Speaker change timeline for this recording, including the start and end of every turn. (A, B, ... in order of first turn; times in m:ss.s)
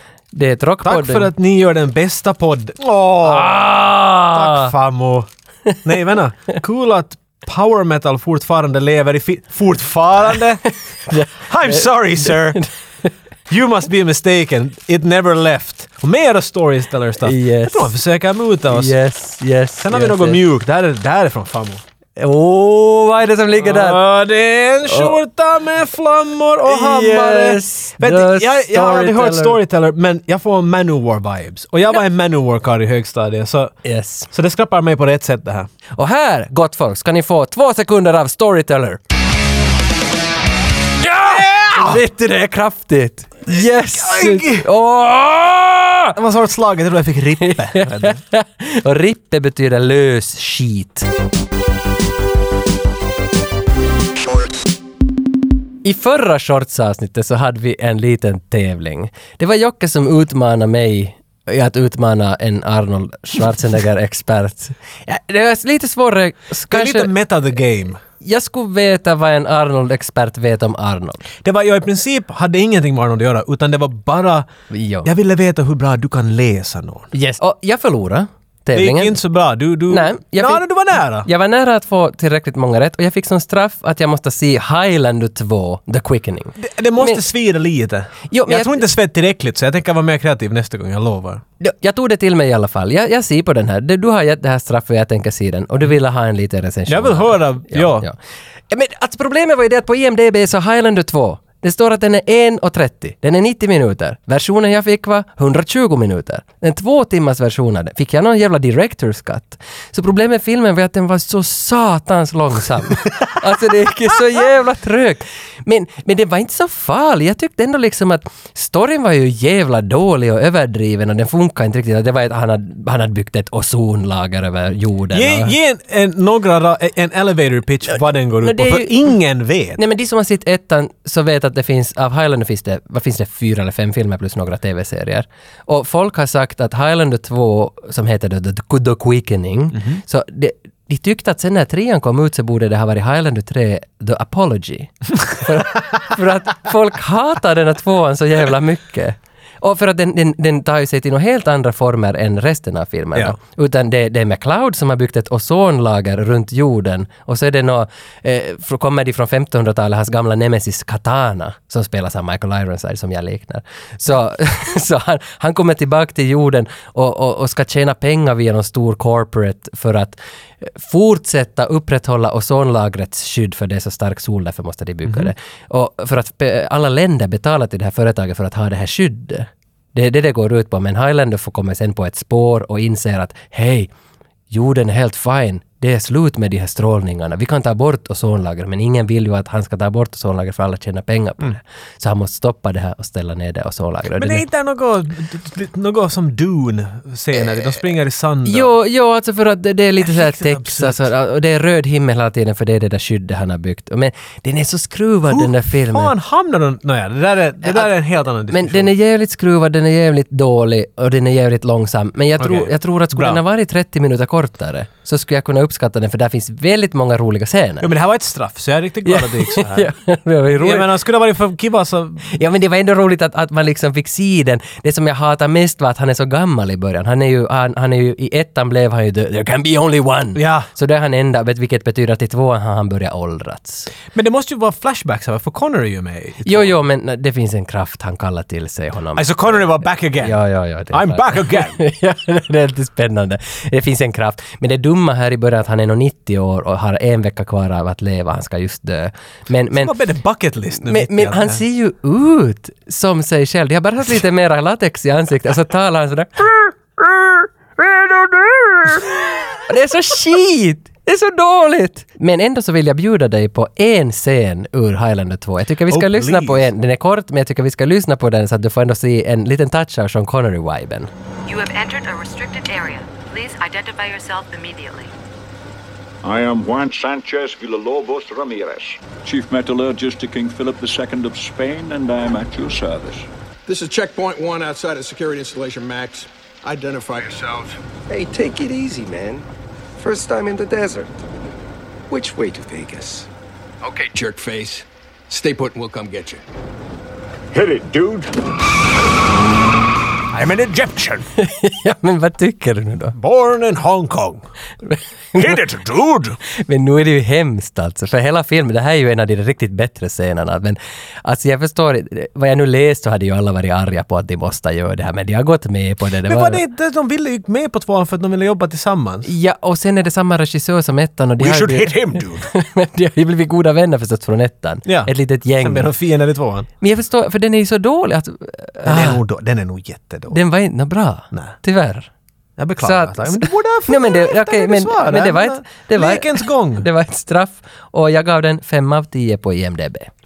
0:00.3-0:01.3 A
0:00.8-0:03.7 B
0:03.2-0:04.7 A
0:04.2-0:05.3 B
0:05.8-0:10.6 B
0:11.1-0:13.1 A
0:11.4-0:12.6 B
0:13.5-0:19.0 B
0:17.2-0:18.0 A
0:18.7-0:20.4 A
0:19.8-0:21.8 B
0:22.2-0:24.0 A
0:23.6-0:33.7 B
0:24.9-0:25.2 A
0:26.6-0:29.6 A
0:33.8-0:34.3 A
0:34.3-0:35.7 B
0:36.0-0:39.0 A
0:41.0-0:46.1 A
0:41.2-0:42.0 B
0:43.5-0:44.7 B
0:46.1-0:48.2 B
0:47.4-0:51.1 A
0:55.8-1:07.1 A
1:06.7-1:08.0 B
1:08.2-1:11.2 A
1:11.4-1:14.5 B
1:14.7-1:15.1 A
1:15.0-1:17.1 B
1:17.1-1:19.2 A
1:18.7-1:21.3 B
1:19.9-1:27.2 A
1:26.6-1:31.4 B
1:28.3-1:28.8 A
1:31.6-1:38.2 A
1:36.9-1:38.1 B
1:38.7-2:05.5 A
2:05.1-2:09.8 B
2:08.4-2:09.1 A
2:09.8-3:03.9 A
2:19.8-2:20.0 B
2:55.1-2:55.3 B
3:04.5-3:14.4 A
3:14.2-3:18.7 B
3:18.4-3:26.1 A
3:20.0-3:21.0 B
3:25.3-3:28.9 B
3:28.5-3:37.9 A
3:32.4-3:33.4 B
3:37.8-3:39.9 B
3:39.0-3:40.9 A
3:40.6-3:42.3 B
3:42.3-3:53.9 A
3:50.4-3:50.7 B
3:54.1-3:56.7 B
3:56.4-4:09.9 A
3:59.2-4:01.8 B
4:09.7-4:11.6 B
4:10.8-4:31.1 A
4:25.9-4:26.7 B
4:31.4-4:35.1 C
4:36.2-4:43.3 D
4:43.7-4:47.8 E
4:48.1-4:49.4 F
4:50.0-4:51.1 F
4:52.1-4:53.3 F
4:53.8-4:56.4 E
4:57.5-4:58.3 D
5:00.3-5:01.2 B
5:01.4-5:03.1 A
5:03.1-5:04.5 B
5:04.8-5:05.6 A
5:05.4-5:06.4 B
5:06.5-5:16.6 A
5:16.2-5:19.3 B
5:19.2-5:25.9 A
5:21.4-5:22.5 B
5:24.8-5:26.7 B
5:26.8-5:29.2 A
5:28.8-5:30.4 B
5:30.3-5:32.1 A
5:32.6-5:36.9 B
5:32.8-5:40.1 A